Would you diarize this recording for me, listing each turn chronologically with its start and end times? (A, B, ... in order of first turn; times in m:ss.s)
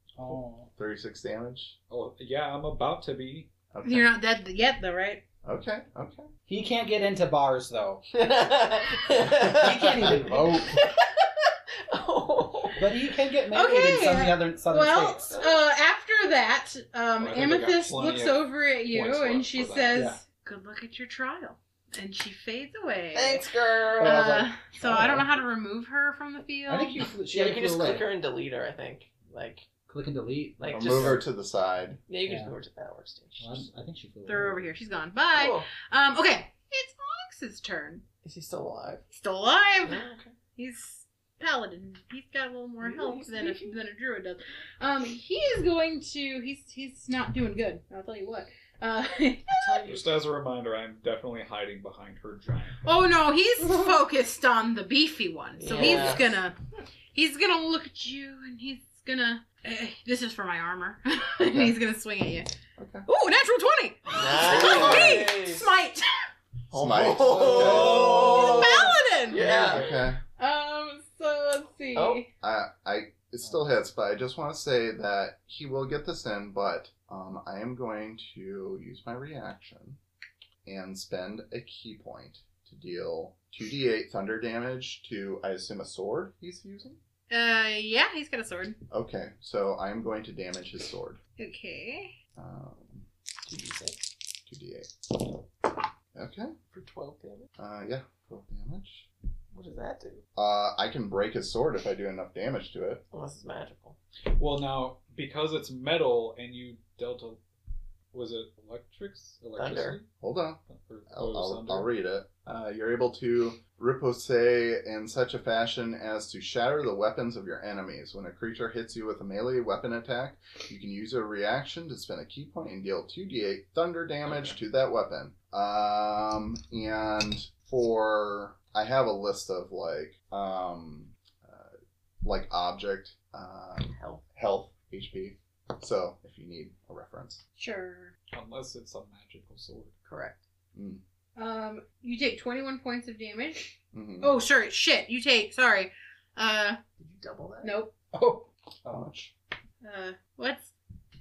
0:00.2-0:00.7 A
0:00.8-0:01.7 B
0:01.9-0:03.5 C
0:03.7-0:04.1 B
0:03.8-0:05.2 D
0:05.4-0:06.3 B
0:06.5-0:08.0 A
0:08.1-0:13.0 E
0:09.3-0:10.8 A
0:12.8-0:15.3 A
0:13.5-0:27.1 D
0:17.2-0:20.1 C
0:19.9-0:20.2 A
0:23.1-0:24.2 E
0:24.0-0:25.3 A
0:26.7-0:28.1 A
0:27.3-0:29.7 E
0:29.9-0:31.2 A
0:30.6-0:31.2 E
0:30.7-0:32.0 B
0:32.1-0:33.6 E
0:32.2-0:32.5 A
0:33.4-0:34.6 A
0:34.2-0:38.0 D
0:35.3-0:35.7 E
0:38.2-0:39.0 E
0:39.1-0:40.0 D
0:39.8-0:40.3 E
0:40.6-0:49.8 D
0:42.8-0:43.7 E
0:49.5-0:50.1 E
0:49.8-0:52.8 C
0:52.8-0:56.6 D
0:55.6-0:56.4 E
0:57.1-1:02.5 D
1:01.4-1:01.8 B
1:02.8-1:03.0 B
1:03.0-1:06.1 D
1:04.1-1:05.7 E
1:04.4-1:05.3 B
1:06.7-1:09.9 E
1:06.7-1:08.6 B
1:07.4-1:08.1 C
1:08.2-1:09.7 D
1:09.4-1:10.2 B
1:10.4-1:12.3 D
1:11.9-1:12.2 E
1:12.4-1:20.0 B
1:20.6-1:27.0 B
1:27.3-1:28.8 D
1:28.9-1:31.2 B
1:31.4-1:32.2 D
1:32.4-1:33.0 B
1:33.4-1:34.1 E
1:34.5-1:34.9 B
1:36.1-1:36.5 B
1:36.7-1:37.5 E
1:37.6-1:39.0 B
1:39.5-1:40.2 E
1:40.4-1:43.0 B
1:43.1-1:44.0 E
1:44.3-1:47.4 C
1:48.1-1:50.1 C
1:49.6-1:50.0 E
1:50.2-2:17.4 B
1:50.6-1:51.9 C
2:13.9-2:14.2 E
2:17.6-2:18.1 D
2:18.3-2:20.0 C
2:20.0-2:20.4 E
2:20.7-2:21.0 B
2:21.4-2:26.8 D
2:23.9-2:24.3 B
2:27.0-2:27.7 E
2:27.6-2:27.9 D
2:28.1-2:29.1 A
2:28.9-2:29.3 B
2:29.8-2:30.7 D